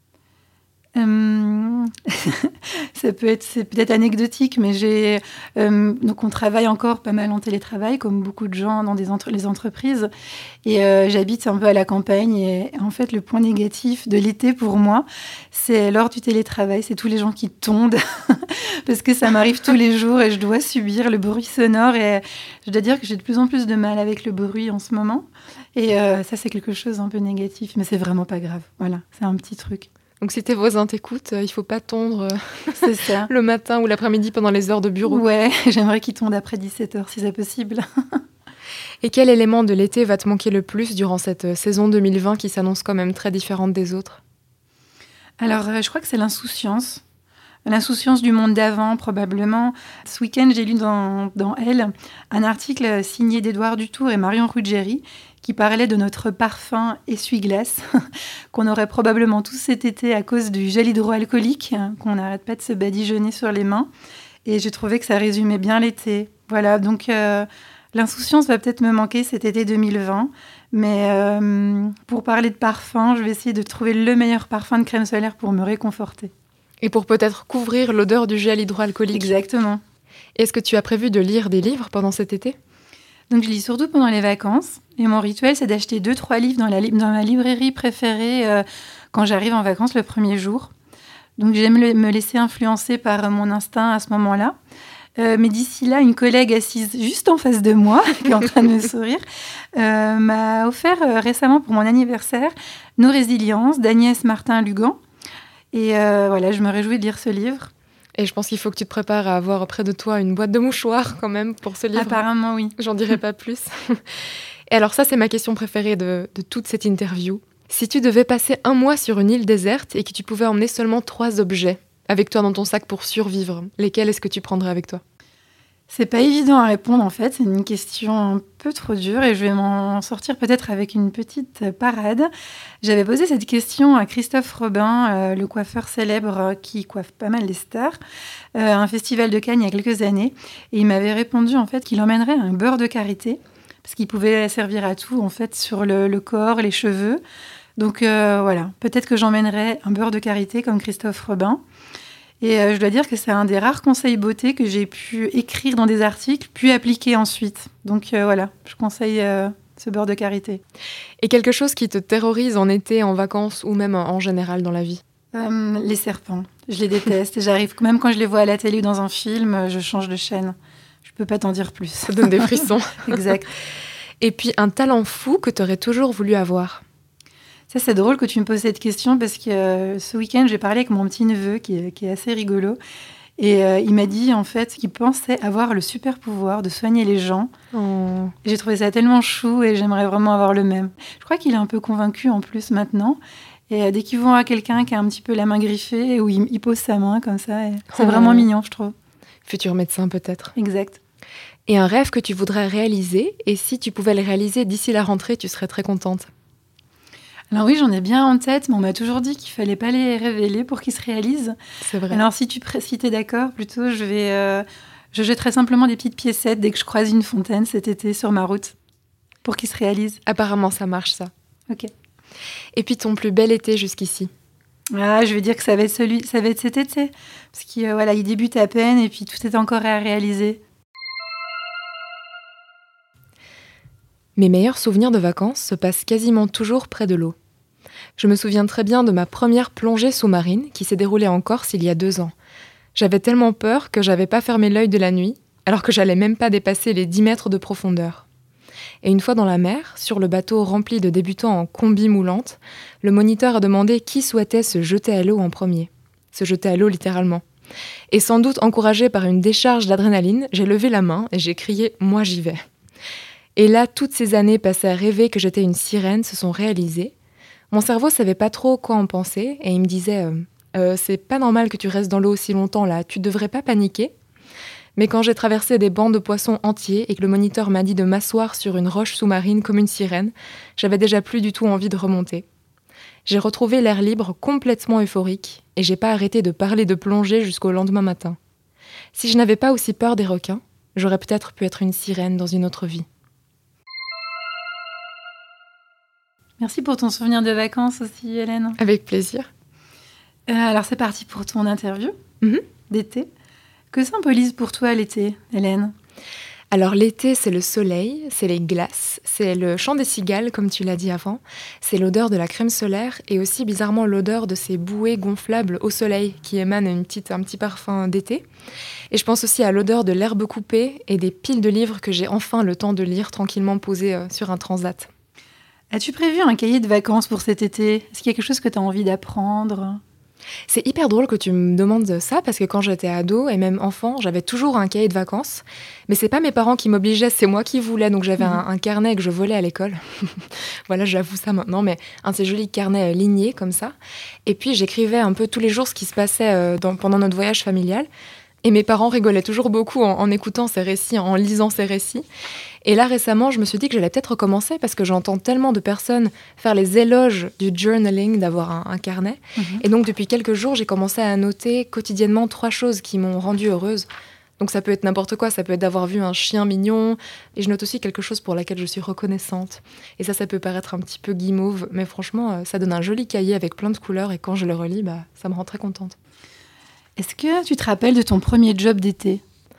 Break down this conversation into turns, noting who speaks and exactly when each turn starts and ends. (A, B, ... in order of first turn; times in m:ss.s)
0:01.0-0:10.1 A
0:10.6-0:29.9 A
0:30.2-0:35.2 B
0:32.8-0:33.3 A
0:35.1-0:38.2 A
0:39.0-0:44.2 B
0:45.4-0:47.0 A
0:47.6-0:57.9 A
0:58.5-1:03.9 A
1:04.5-1:16.3 A
1:16.8-1:19.3 B
1:19.1-1:19.8 A
1:20.4-1:22.6 B
1:23.3-1:30.7 A
1:31.4-1:34.6 A
1:35.2-1:39.2 A
1:39.8-1:45.0 A
1:45.7-1:47.7 A
1:48.2-1:52.2 B
1:52.0-1:52.8 A
1:52.8-2:05.0 B
2:05.9-2:12.3 A
2:12.8-2:18.0 A
2:18.6-2:27.2 A
2:27.8-2:31.6 A
2:32.4-2:40.6 A
2:41.2-2:45.0 B
2:45.3-2:53.5 A
2:52.0-2:53.4 B
2:54.2-2:56.8 B
2:57.7-3:02.8 A
3:03.4-3:07.5 A
3:07.7-3:08.3 B
3:08.4-3:18.9 A
3:17.9-3:18.5 B
3:19.4-3:20.5 B
3:20.6-3:21.0 A
3:21.7-3:26.3 B
3:27.5-3:31.6 A
3:31.8-3:32.2 B
3:32.1-3:38.8 A
3:39.4-3:40.2 A
3:40.3-3:41.3 B
3:42.8-3:44.3 B
3:44.9-3:50.6 A
3:54.4-3:57.4 B
3:58.2-4:02.3 B
4:03.0-4:08.2 B
4:09.0-4:17.4 B
4:18.1-4:22.6 B
4:23.6-4:27.1 B
4:27.7-4:34.1 B
4:35.0-4:42.4 B
4:43.3-4:48.4 B
4:49.1-4:53.1 B
4:56.6-4:58.8 A
4:58.8-4:59.5 B
5:00.5-5:02.2 A
5:02.9-5:03.3 A
5:03.9-5:05.9 A
5:06.7-5:18.4 B
5:19.1-5:25.1 B
5:25.9-5:30.0 A
5:30.7-5:44.0 B
5:44.5-5:48.1 B
5:48.6-5:52.3 B
5:52.8-6:04.1 B
5:59.6-5:59.8 A
6:04.6-6:16.2 B
6:17.2-6:19.4 A